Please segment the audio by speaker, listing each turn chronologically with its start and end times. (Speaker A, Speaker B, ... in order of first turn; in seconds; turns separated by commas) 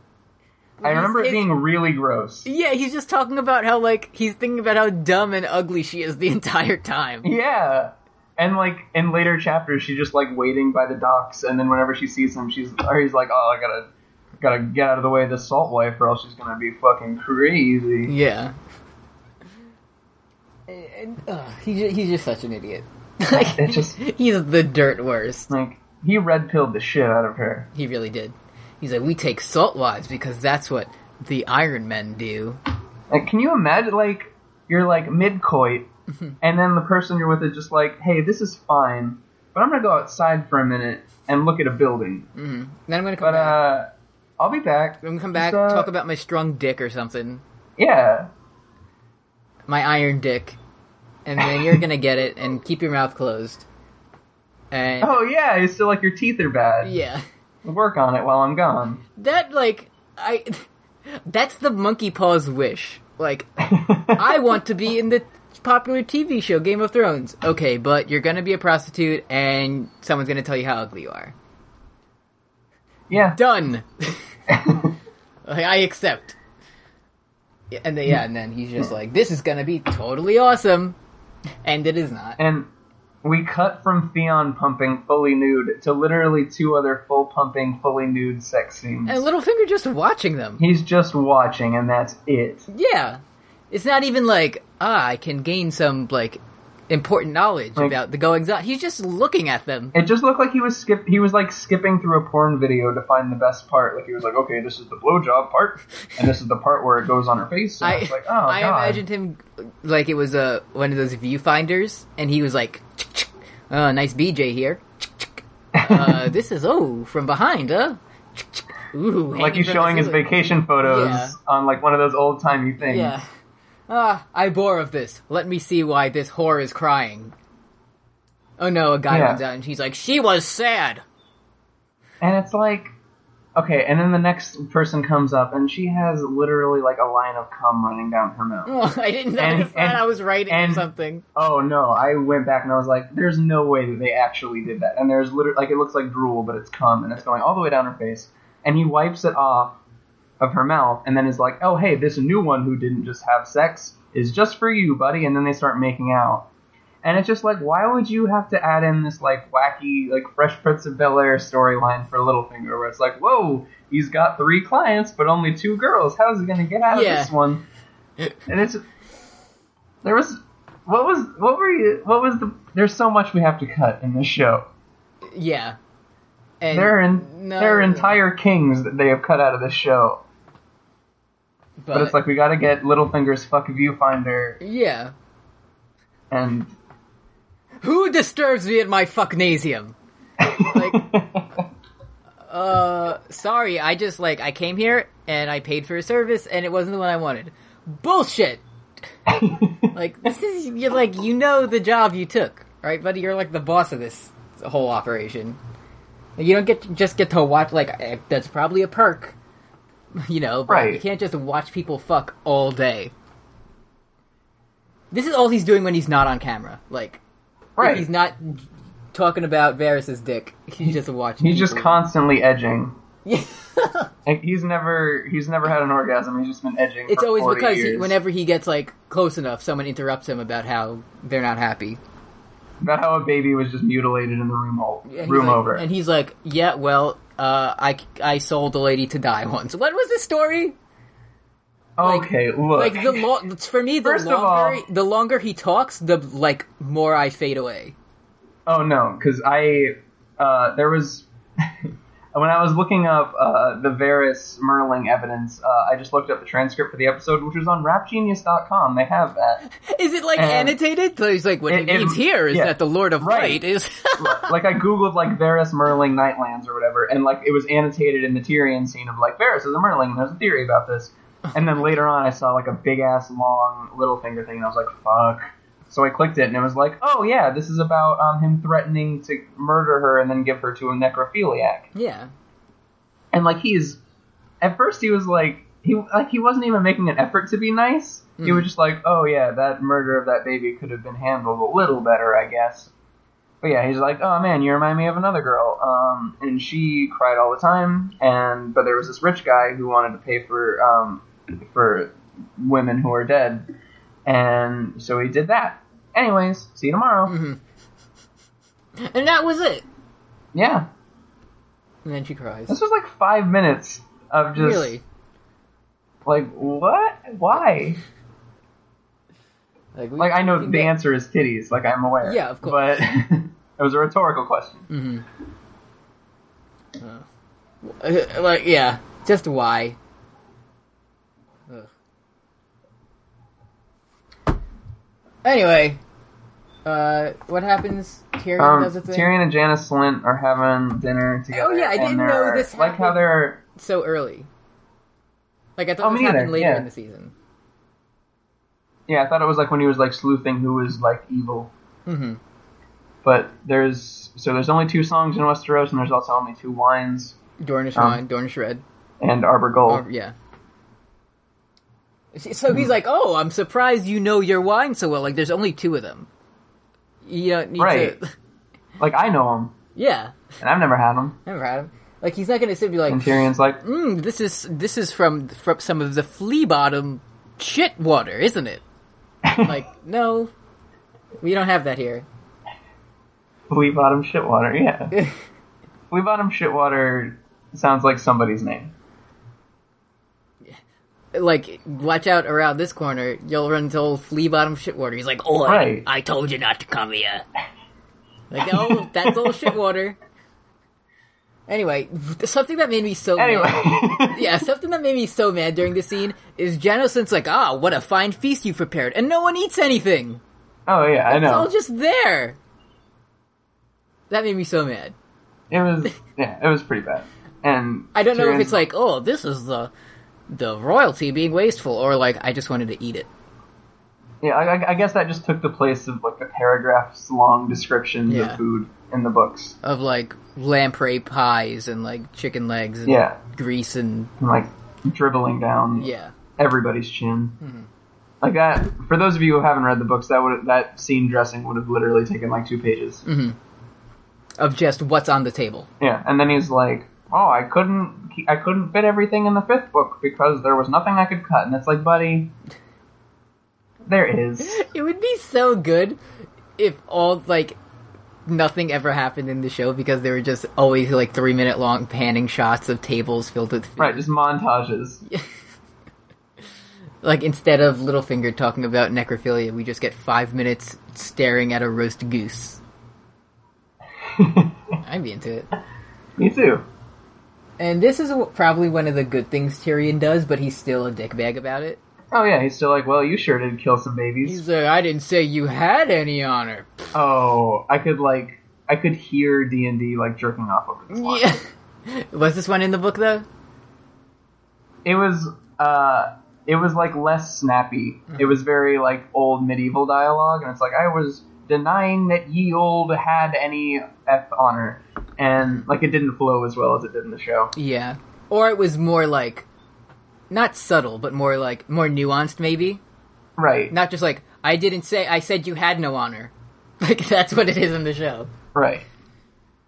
Speaker A: 0.8-1.5, Speaker B: 0.8-2.5, Speaker A: 2.4-7.3, Speaker B: 7.2-13.9, Speaker B: 14.4-18.1, Speaker A: 18.1-18.5, Speaker A: 20.7-25.5, Speaker B: 23.3-24.0, Speaker B: 25.5-27.7, Speaker A: 27.7-32.6, Speaker B: 33.1-35.9, Speaker B: 36.4-42.3, Speaker A: 42.3-43.6, Speaker B: 43.2-45.9, Speaker A: 45.0-47.4, Speaker B: 47.8-48.3, Speaker A: 49.7-50.6, Speaker A: 51.2-53.6, Speaker B: 51.4-51.8, Speaker A: 54.7-55.2, Speaker B: 55.0-56.9, Speaker A: 56.8-57.2, Speaker B: 57.6-59.0, Speaker A: 59.1-60.6, Speaker A: 61.2-71.3, Speaker B: 63.6-64.3, Speaker B: 73.1-73.4, Speaker A: 73.3-74.2, Speaker B: 74.5-74.9, Speaker A: 75.5-76.3, Speaker A: 77.7-81.0, Speaker A: 81.6-82.4, Speaker B: 82.4-82.7, Speaker B: 83.2-89.2, Speaker A: 89.0-90.6, Speaker B: 90.6-92.7, Speaker A: 92.7-99.9, Speaker B: 99.9-109.0, Speaker A: 107.8-120.2, Speaker B: 115.8-116.2, Speaker B: 119.3-123.1, Speaker A: 120.8-121.3, Speaker A: 122.8-123.2, Speaker A: 123.9-127.3, Speaker A: 128.6-131.0, Speaker B: 129.1-129.4, Speaker B: 132.2-132.9, Speaker B: 133.6-138.7, Speaker A: 138.7-141.2, Speaker B: 139.4-140.8, Speaker B: 141.3-149.8, Speaker B: 150.4-156.5, Speaker B: 157.0-167.6, Speaker A: 166.9-167.3, Speaker B: 168.5-168.8, Speaker B: 170.0-174.7, Speaker A: 175.3-175.8, Speaker A: 176.6-178.2, Speaker B: 176.7-180.2, Speaker A: 181.8-182.2, Speaker B: 181.9-184.6, Speaker A: 184.6-185.1, Speaker B: 186.3-186.7, Speaker A: 187.8-189.9, Speaker B: 190.4-191.6, Speaker A: 190.6-191.1, Speaker A: 192.5-198.6, Speaker B: 199.3-199.9, Speaker A: 199.9-205.6, Speaker A: 206.4-209.3, Speaker A: 210.2-213.1, Speaker B: 210.7-211.0, Speaker A: 215.1-217.2, Speaker B: 217.8-218.1, Speaker A: 217.8-222.0, Speaker B: 221.4-222.9, Speaker A: 223.2-224.1, Speaker B: 224.2-228.1, Speaker A: 227.1-232.0, Speaker B: 232.8-235.8, Speaker A: 235.1-240.8, Speaker B: 242.0-243.2, Speaker A: 242.0-247.9, Speaker B: 244.0-244.8, Speaker B: 248.7-259.6, Speaker A: 259.7-264.5, Speaker B: 260.4-260.8, Speaker B: 261.7-263.6, Speaker B: 264.2-281.9, Speaker A: 281.9-282.3, Speaker B: 283.3-284.0, Speaker B: 284.6-292.9, Speaker A: 288.4-288.7, Speaker B: 293.6-303.6, Speaker B: 304.2-307.4, Speaker A: 307.3-307.6, Speaker A: 309.0-309.8, Speaker B: 310.5-310.9, Speaker A: 312.0-312.8, Speaker B: 312.7-314.9, Speaker A: 314.6-315.0, Speaker B: 316.2-318.0, Speaker A: 319.9-320.9, Speaker B: 320.2-324.9, Speaker A: 322.2-322.9, Speaker A: 324.9-325.2, Speaker A: 327.0-327.2, Speaker A: 327.8-330.0, Speaker A: 335.4-336.0, Speaker A: 336.8-339.3, Speaker B: 338.6-343.6, Speaker A: 341.5-344.5, Speaker A: 345.8-347.3, Speaker B: 346.0-346.9, Speaker B: 349.1-351.7, Speaker A: 352.1-352.4, Speaker B: 353.2-357.4, Speaker A: 357.6-358.8, Speaker B: 357.9-358.2, Speaker B: 359.2-360.0, Speaker A: 359.9-360.3, Speaker A: 362.3-366.3, Speaker A: 367.2-368.2, Speaker B: 367.8-368.1, Speaker B: 369.0-369.7, Speaker A: 369.9-370.4, Speaker B: 370.6-371.4, Speaker A: 371.4-378.8, Speaker B: 373.1-373.8, Speaker B: 379.4-379.7, Speaker A: 379.6-380.5, Speaker A: 381.4-382.2, Speaker B: 383.7-385.1, Speaker B: 386.1-388.9, Speaker A: 391.3-397.4, Speaker B: 395.6-396.0, Speaker A: 398.5-400.2, Speaker B: 398.6-399.7, Speaker A: 401.7-410.4, Speaker B: 403.4-404.5, Speaker B: 410.9-411.7, Speaker A: 411.3-412.6, Speaker A: 414.3-415.1, Speaker B: 415.7-418.8, Speaker A: 418.1-419.9, Speaker A: 420.5-423.3, Speaker B: 424.4-429.8, Speaker A: 428.3-428.6, Speaker A: 429.8-434.3, Speaker B: 433.1-433.4, Speaker B: 434.4-437.6, Speaker A: 435.9-436.3, Speaker A: 437.6-437.9, Speaker B: 438.4-443.2, Speaker A: 443.2-443.6, Speaker A: 444.6-445.9, Speaker B: 446.0-452.5, Speaker B: 454.1-454.8, Speaker A: 454.6-456.2, Speaker A: 456.8-457.8, Speaker A: 458.4-464.2, Speaker B: 464.0-465.2, Speaker A: 467.2-472.8, Speaker B: 474.2-474.8, Speaker A: 475.0-475.7, Speaker B: 476.4-476.8, Speaker A: 477.8-482.0, Speaker B: 482.3-484.6, Speaker A: 484.4-487.1, Speaker B: 487.1-491.5, Speaker A: 491.1-493.4, Speaker B: 495.0-507.7, Speaker A: 505.6-505.9, Speaker A: 507.7-509.6, Speaker A: 510.5-513.0, Speaker B: 513.6-513.9, Speaker A: 513.9-518.5, Speaker B: 518.7-519.0